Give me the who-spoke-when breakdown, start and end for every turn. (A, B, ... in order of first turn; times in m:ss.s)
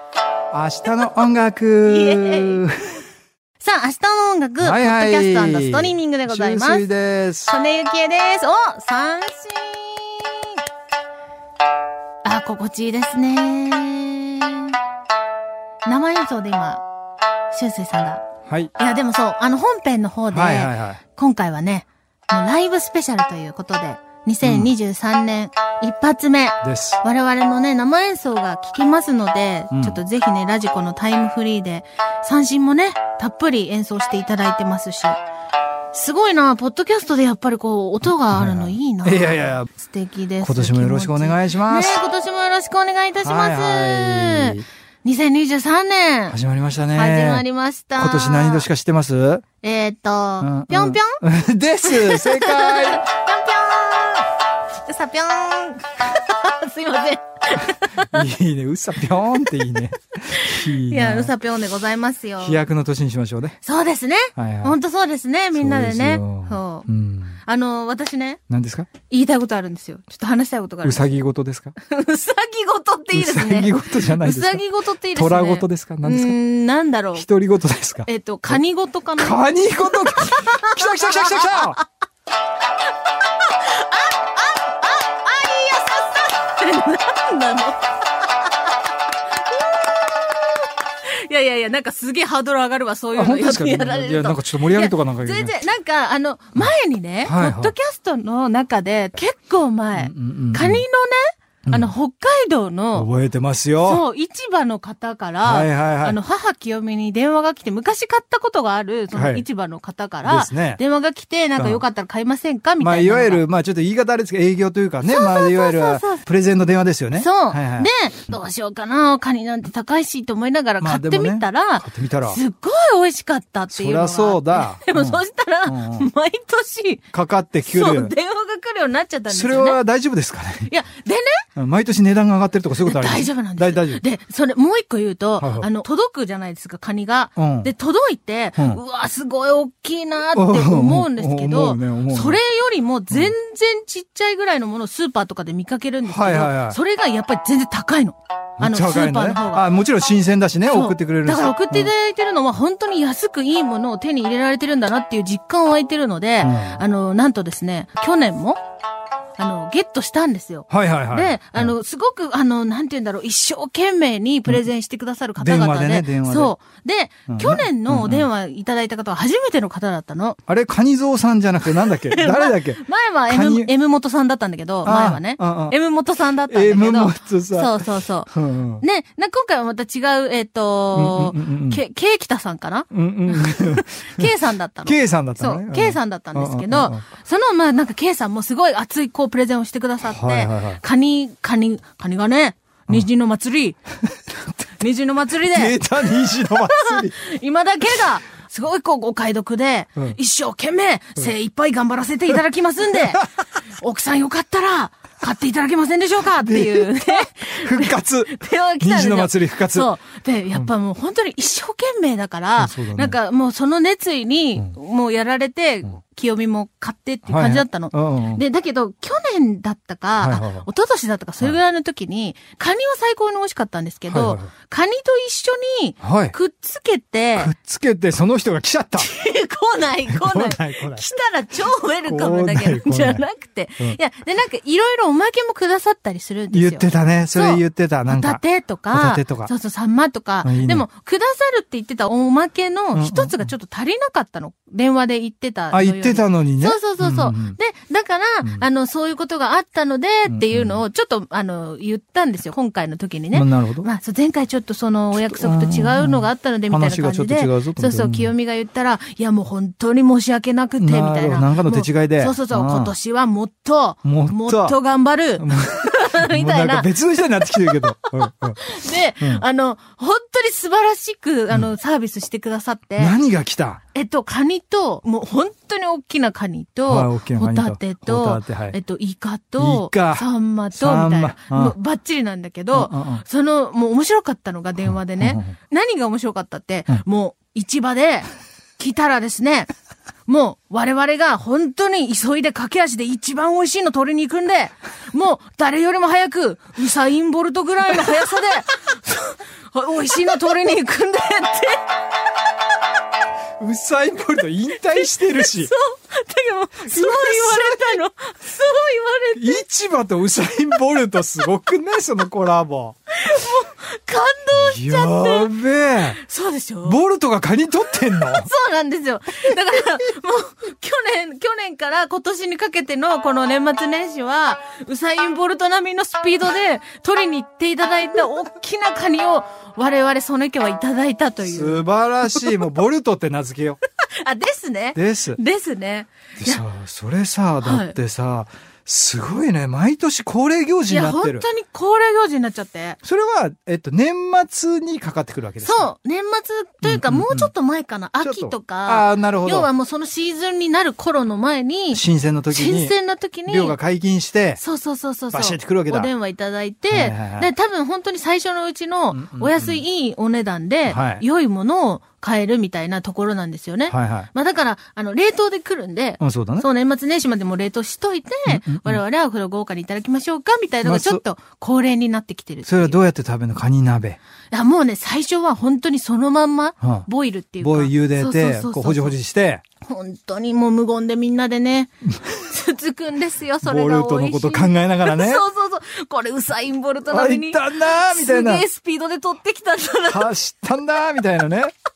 0:00.5-0:03.0 A
0:01.8-0:02.7 B
0:03.6-0:06.8 B
0:04.6-0:07.5 A
0:07.5-0:10.6 B
0:12.2-0:14.8 B
0:15.8-0:16.8 B
0:17.5-0:18.2 B
0:18.5-0:18.7 A
0:18.7-0:35.2 B
0:20.3-0:21.0 A
0:24.4-0:24.7 A
0:26.6-0:27.0 A
0:29.7-0:30.0 A
0:35.9-0:46.4 B
0:38.3-0:39.7 A
0:40.4-0:42.0 A
0:43.2-0:44.7 A
0:46.3-0:47.4 A
0:46.9-0:48.7 B
0:48.0-0:49.4 A
0:49.6-0:51.2 B
0:50.4-0:53.0 A
0:51.8-0:54.3 B
0:54.8-0:58.2 B
0:58.0-1:01.3 A
1:00.3-1:02.6 B
1:02.4-1:03.6 A
1:03.6-1:06.9 B
1:04.4-1:04.8 A
1:05.5-1:07.4 A
1:07.4-1:08.4 B
1:08.5-1:08.9 A
1:09.1-1:11.0 B
1:10.8-1:11.7 A
1:11.8-1:17.2 B
1:13.1-1:14.6 A
1:15.1-1:16.4 A
1:17.1-1:18.6 A
1:18.0-1:21.8 B
1:19.2-1:21.8 A
1:23.4-1:27.8 B
1:29.4-1:30.4 B
1:31.0-1:43.1 B
1:33.2-1:35.5 A
1:37.2-1:37.7 A
1:39.9-1:40.8 A
1:41.6-1:41.9 A
1:42.9-1:44.0 A
1:43.8-1:53.4 B
1:45.4-1:46.2 A
1:49.1-1:49.4 A
1:50.2-1:50.8 A
1:51.6-1:51.8 A
1:52.8-1:57.9 A
1:55.0-1:56.2 B
1:57.1-2:07.0 B
2:00.8-2:02.4 A
2:03.7-2:06.1 A
2:07.1-2:08.1 A
2:07.6-2:09.8 B
2:09.3-2:10.7 A
2:10.7-2:11.4 B
2:11.6-2:14.0 A
2:12.8-2:29.7 B
2:15.4-2:15.7 A
2:17.4-2:17.7 A
2:20.3-2:22.4 A
2:26.0-2:26.8 A
2:28.6-2:31.9 A
2:30.7-2:38.6 B
2:36.4-2:36.8 A
2:39.4-2:50.4 B
2:40.7-2:41.7 A
2:45.4-2:46.5 A
2:47.3-2:48.3 A
2:50.5-2:53.7 A
2:51.8-3:13.8 B
2:54.8-2:55.8 A
2:56.5-2:58.8 A
3:00.9-3:01.8 A
3:02.9-3:04.3 A
3:04.8-3:07.0 A
3:10.0-3:10.8 A
3:14.8-3:47.5 B
3:15.5-3:17.1 A
3:22.9-3:23.2 A
3:26.4-3:29.9 A
3:32.6-3:33.2 A
3:37.3-3:38.4 A
3:40.2-3:40.7 A
3:44.1-3:44.5 A
3:46.0-3:46.3 A
3:47.4-3:49.1 A
3:49.0-4:26.9 B
3:50.1-3:51.0 A
3:52.1-3:53.2 A
3:56.5-3:59.5 A
4:00.4-4:00.8 A
4:02.9-4:03.4 A
4:05.7-4:07.6 A
4:10.3-4:10.8 A
4:13.3-4:13.9 A
4:15.1-4:18.3 A
4:20.8-4:22.9 A
4:24.0-4:24.8 A
4:25.4-4:29.4 A
4:27.6-4:33.2 B
4:33.0-4:33.8 A
4:33.9-4:49.7 B
4:36.8-4:38.8 A
4:39.6-4:41.7 A
4:42.7-4:43.2 A
4:44.9-4:45.5 A
4:50.2-5:01.8 B
5:03.6-5:05.7 A
5:04.9-5:09.6 B
5:06.8-5:08.0 A
5:09.4-5:13.0 A
5:13.1-5:15.5 B
5:14.5-5:16.2 A
5:16.2-5:17.0 B
5:16.8-5:18.5 A
5:18.2-5:32.5 B
5:31.4-5:33.8 A
5:34.2-5:36.6 B
5:34.9-5:35.4 A
5:36.4-5:41.4 A
5:37.6-5:38.0 B
5:40.9-5:43.0 B
5:43.0-5:45.9 A
5:45.6-5:53.8 B
5:46.8-5:47.5 A
5:48.2-5:49.7 A
5:51.9-5:52.9 A
5:53.5-5:54.6 A
5:54.6-6:13.0 B
5:55.3-5:56.1 A
5:56.9-5:57.5 A
5:59.1-5:59.8 A
6:00.9-6:01.2 A
6:03.9-6:04.3 A
6:06.2-6:06.6 A
6:08.5-6:09.0 A
6:10.8-6:11.2 A
6:12.6-6:14.2 A
6:14.5-6:19.1 B
6:16.8-6:17.1 A
6:17.6-6:19.6 A
6:19.8-6:30.3 B
6:23.6-6:25.4 A
6:27.1-6:28.6 A
6:30.0-6:31.7 A